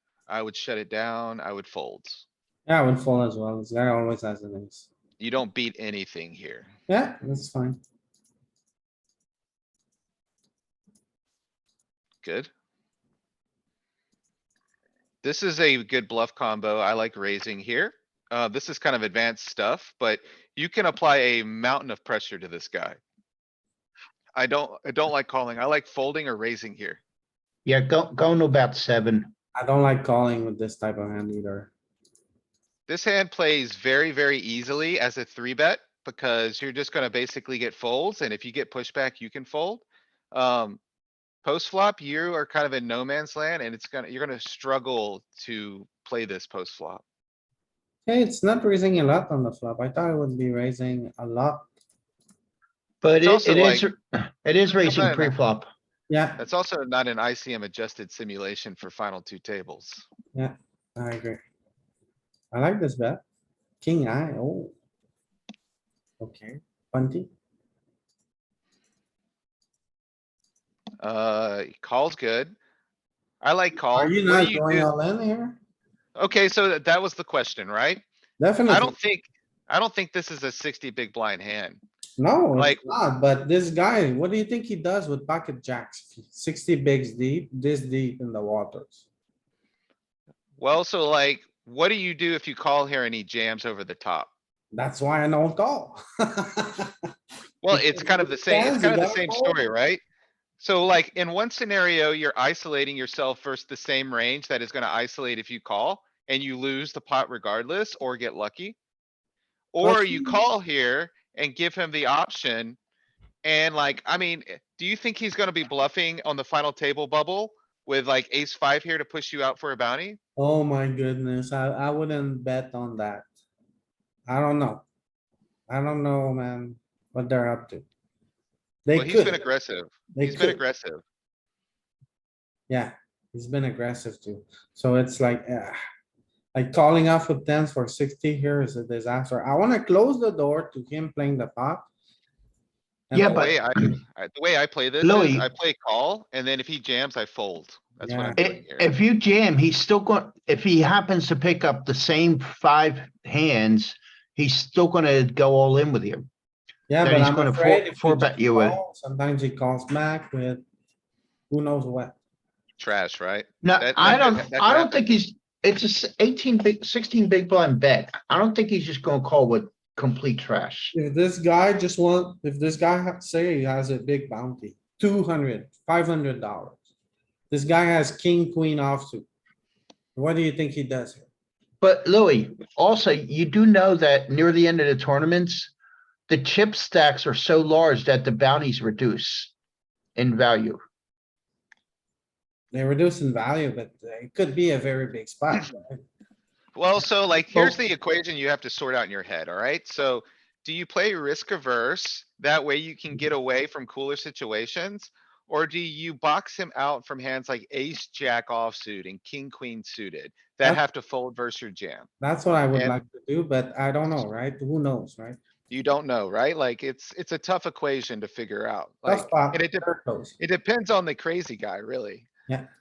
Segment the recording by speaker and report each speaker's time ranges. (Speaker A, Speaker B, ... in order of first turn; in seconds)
Speaker A: 0.3-2.2, 5.2-6.7, 12.2-12.5, 15.2-23.0, 24.4-27.0, 32.9-40.8, 41.4-47.0, 53.2-53.9, 54.8-55.4, 56.4-60.1, 71.0-72.5, 73.4-74.9, 76.2-78.0, 78.7-81.8, 82.5-82.9, 90.6-94.3, 97.6-100.0, 100.6-108.8, 109.7-112.8, 113.4-120.2, 128.9-131.0, 143.2-148.9, 162.8-165.0, 196.8-212.1, 215.7-219.9, 220.4-222.3
Speaker B: 2.7-4.9, 6.9-7.8, 29.6-31.7, 48.1-51.7, 56.1-56.4, 60.4-61.4, 62.5-63.2, 63.8-64.7, 66.2-67.3, 73.9-75.6, 78.4-78.9, 82.2-89.0, 94.7-96.9, 97.7-99.6, 109.8-110.4, 120.4-123.3, 124.3-124.8, 125.7-127.9, 128.9-129.4, 130.1-130.6, 132.7-135.8, 136.5-141.9, 143.1-143.5, 148.0-148.4, 156.9-160.6, 161.5-162.2, 170.9-176.8, 177.5-179.3, 180.2-181.3, 192.7-196.0, 212.2-215.4, 219.1-220.4
Speaker C: 27.7-29.3, 53.0-55.7, 143.1-143.9, 145.0-145.5, 148.4-156.3, 157.0-158.8, 163.6-170.9, 181.8-185.7, 186.3-189.5, 190.2-190.8